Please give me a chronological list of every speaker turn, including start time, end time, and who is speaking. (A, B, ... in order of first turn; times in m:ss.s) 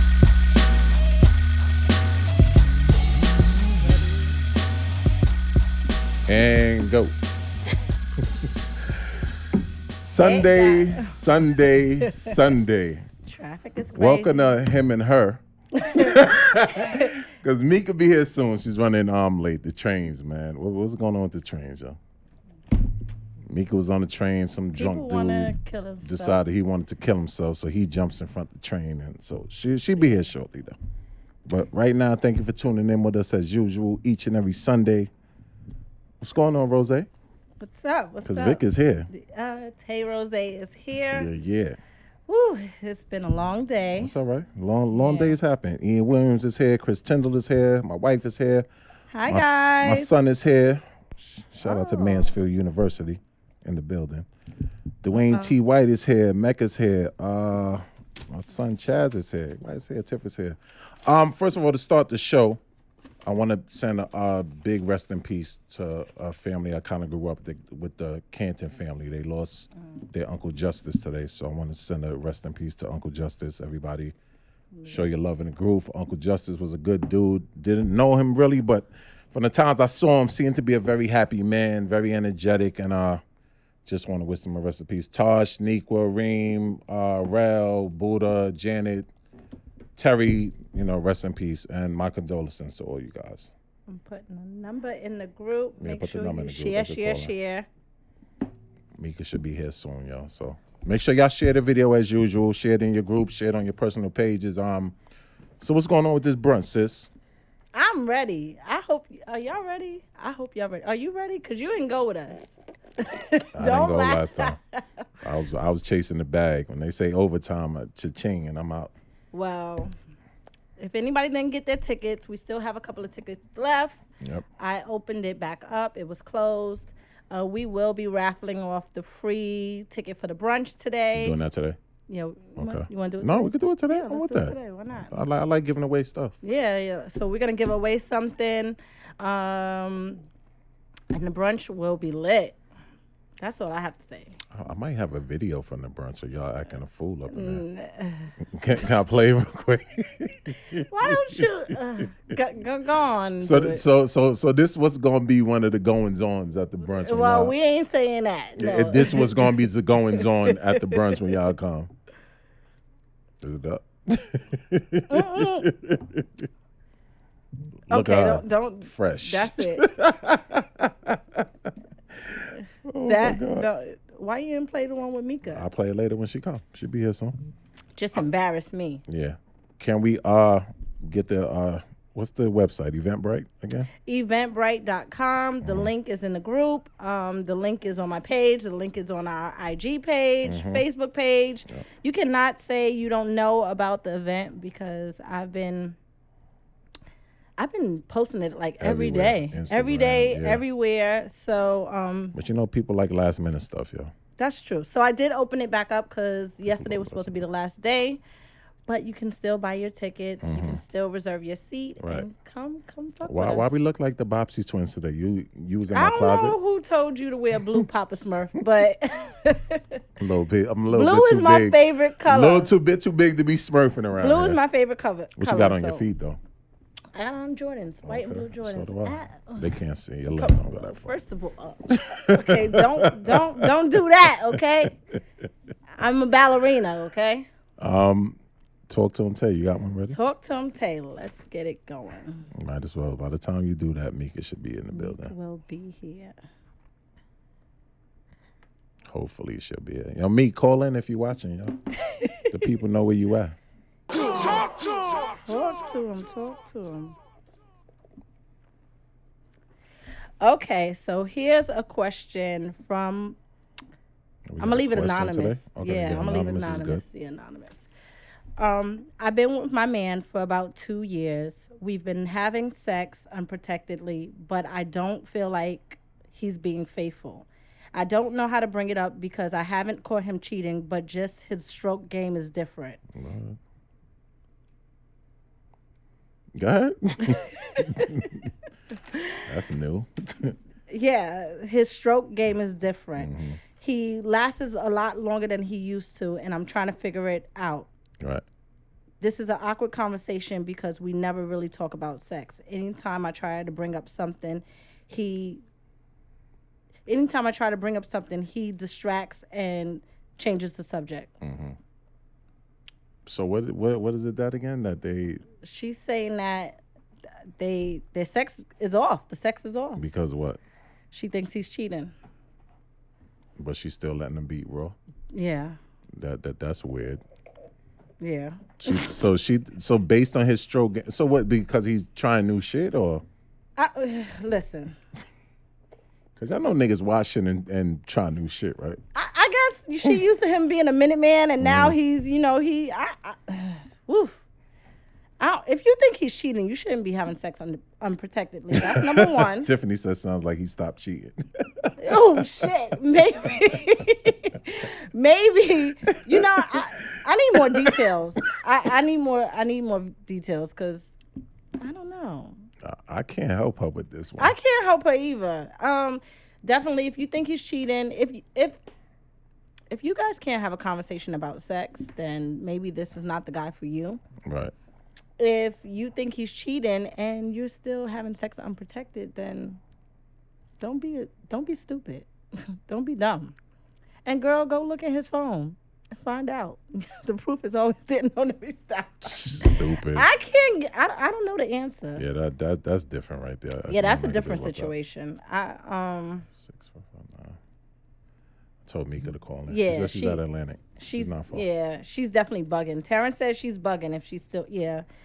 0:03.7-0:04.4 A
0:06.3-0:07.2 B
0:09.9-0:13.1 B
0:10.2-0:11.2 A
0:12.1-0:12.4 A
0:13.3-0:14.5 A
0:14.0-0:22.0 B
0:15.8-0:17.2 A
0:23.5-0:30.8 B
0:24.8-0:26.4 A
0:31.5-0:35.1 B
0:36.2-0:37.1 B
0:37.6-0:41.3 A
0:38.2-0:39.1 B
0:41.1-0:41.8 B
0:42.3-0:44.1 A
0:44.0-0:48.7 B
0:44.9-0:45.4 A
0:49.1-0:50.1 A
0:49.3-0:54.3 B
0:51.6-0:52.3 A
0:55.0-1:02.6 B
0:55.1-0:55.5 A
1:03.2-1:14.2 B
1:14.8-1:15.0 A
1:14.9-1:23.2 B
1:23.8-1:29.1 B
1:30.0-1:33.5 B
1:33.9-1:37.7 A
1:35.8-1:37.3 B
1:39.0-1:45.0 B
1:45.6-1:47.1 B
1:47.7-1:54.8 A
1:53.5-1:54.6 B
1:55.2-1:58.9 B
1:59.3-1:59.9 A
2:00.8-2:04.0 A
2:04.2-2:04.5 B
2:04.6-2:11.4 A
2:11.1-2:11.8 B
2:12.1-2:15.2 A
2:12.6-2:14.6 B
2:15.1-2:16.4 B
2:16.4-2:20.2 A
2:21.1-2:22.6 A
2:23.4-2:24.4 A
2:24.5-2:27.6 B
2:27.3-2:28.3 A
2:28.4-2:31.4 B
2:30.8-2:33.8 A
2:33.4-2:37.6 B
2:37.0-2:39.5 A
2:38.6-2:41.9 B
2:40.2-2:41.0 A
2:43.4-2:46.4 B
2:45.1-2:45.7 A
2:47.9-2:51.7 B
2:47.9-2:49.9 A
2:52.3-2:53.7 B
2:53.1-2:55.7 A
2:55.5-2:57.4 B
2:58.0-2:59.0 A
2:59.1-3:03.9 B
3:04.1-3:16.0 A
3:05.6-3:05.9 B
3:10.4-3:10.8 B
3:17.6-3:22.4 A
3:18.8-3:20.6 B
3:22.3-3:24.1 B
3:24.4-3:28.2 A
3:26.7-3:27.3 B
3:28.9-3:33.8 A
3:30.4-3:30.8 B
3:32.0-3:32.3 B
3:33.2-3:36.6 B
3:35.9-3:40.0 A
3:40.2-3:44.6 B
3:40.9-3:42.7 A
3:44.2-3:46.1 A
3:45.4-3:46.4 B
3:47.2-3:49.7 A
3:48.0-3:51.1 B
3:50.4-3:55.0 A
3:51.9-3:53.7 B
3:56.0-3:57.5 A
3:57.8-4:00.2 B
4:00.1-4:02.5 A
4:02.6-4:05.3 B
4:04.9-4:06.4 A
4:09.1-4:11.8 B
4:12.0-4:12.6 A
4:12.5-4:13.6 B
4:15.4-4:17.2 A
4:20.4-4:23.4 A
4:24.5-4:27.0 B
4:24.6-4:27.9 A
4:28.6-4:43.0 A
4:43.1-4:43.6 B
4:46.6-4:48.5 B
4:47.6-4:48.1 A
4:49.1-4:49.4 A
4:49.5-4:50.6 B
4:50.9-4:57.9 A
4:53.2-4:53.6 B
4:58.2-4:58.4 B
4:59.2-5:05.6 A
5:07.1-5:11.3 A
5:11.4-5:11.8 B
5:13.3-5:15.4 B
5:15.6-5:16.8 A
5:17.6-5:20.0 A
5:20.0-5:20.6 B
5:21.1-5:22.1 A
5:23.6-5:25.0 B
5:25.3-5:25.8 A
5:26.2-5:27.2 B
5:28.2-5:29.0 A
5:28.8-5:33.2 B
5:33.8-5:35.0 A
5:36.4-5:39.0 B
5:39.2-5:44.4 A
5:41.6-5:42.0 B
5:45.4-5:49.7 A
5:48.8-5:52.7 B
5:52.0-6:01.1 A
5:56.3-5:56.8 B
5:57.6-5:58.0 B
6:01.8-6:02.6 A
6:02.8-6:04.6 B
6:04.4-6:08.8 A
6:09.9-6:14.2 A
6:14.4-6:14.7 B
6:15.4-6:19.8 A
6:20.8-6:23.6 A
6:24.3-6:32.2 A
6:29.2-6:30.3 B
6:32.2-6:34.9 B
6:33.9-6:36.5 A
6:36.5-6:37.6 B
6:38.8-6:41.6 B
6:39.7-6:40.4 A
6:41.0-6:45.0 A